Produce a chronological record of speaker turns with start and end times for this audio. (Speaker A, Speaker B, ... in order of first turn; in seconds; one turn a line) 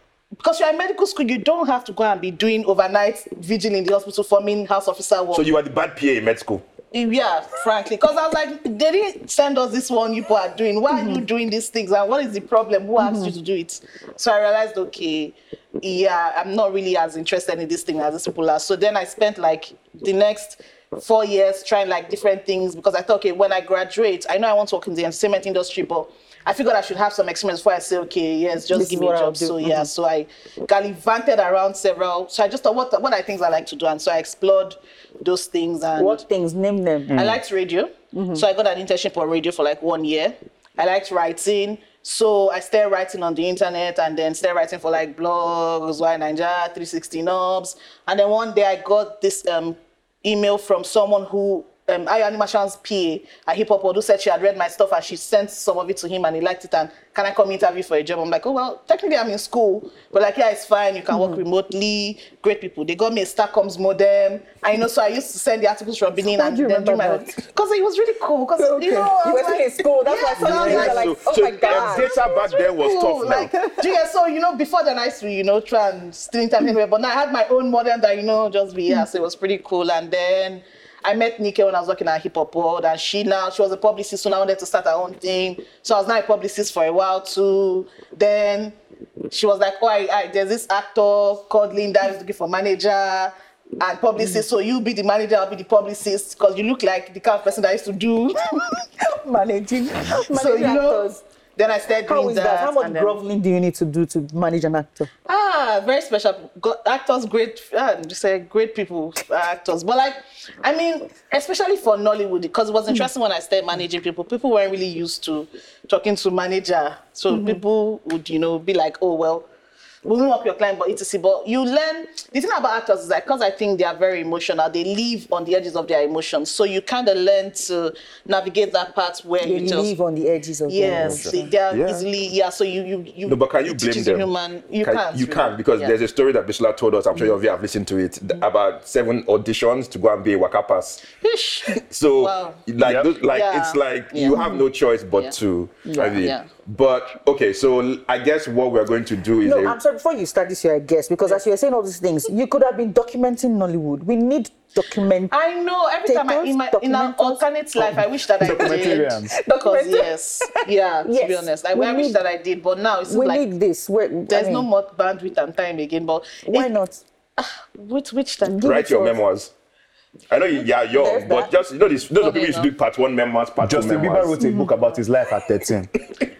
Speaker A: 0.4-5.5
Speaker B: 5.3-6.6
Speaker A: 6.9-36.2
Speaker C: 10.9-11.2
Speaker C: 13.0-13.3
Speaker C: 28.7-29.9
Speaker C: 36.0-37.1
Speaker D: 37.1-37.4
Speaker A: 37.1-71.1
Speaker C: 38.1-38.5
Speaker C: 61.1-61.4
Speaker C: 66.3-67.3
Speaker C: 68.6-72.2
Speaker B: 70.4-73.5
Speaker A: 71.6-88.8
Speaker C: 73.6-73.9
Speaker A: 89.3-98.6
Speaker C: 99.0-101.2
Speaker A: 100.2-103.2
Speaker C: 102.1-105.1
Speaker A: 105.3-119.5
Speaker C: 117.3-117.6
Speaker A: 120.0-129.9
Speaker C: 129.4-131.3
Speaker A: 130.7-135.9
Speaker B: 131.0-132.0
Speaker B: 133.3-134.3
Speaker B: 134.8-141.0
Speaker A: 141.1-142.6
Speaker B: 141.7-149.8
Speaker D: 142.8-143.1
Speaker A: 143.2-144.5
Speaker C: 144.3-144.6
Speaker C: 145.9-146.2
Speaker A: 145.9-146.5
Speaker C: 149.4-155.3
Speaker A: 155.3-163.4
Speaker C: 156.1-157.9
Speaker D: 158.4-159.3
Speaker C: 158.5-162.2
Speaker C: 163.1-164.7
Speaker A: 164.3-166.7
Speaker C: 166.4-167.0
Speaker A: 167.4-169.1
Speaker C: 168.4-169.1
Speaker B: 168.6-169.5
Speaker B: 170.3-174.3
Speaker C: 170.9-171.5
Speaker A: 172.2-172.7
Speaker D: 173.6-175.9
Speaker C: 174.4-174.7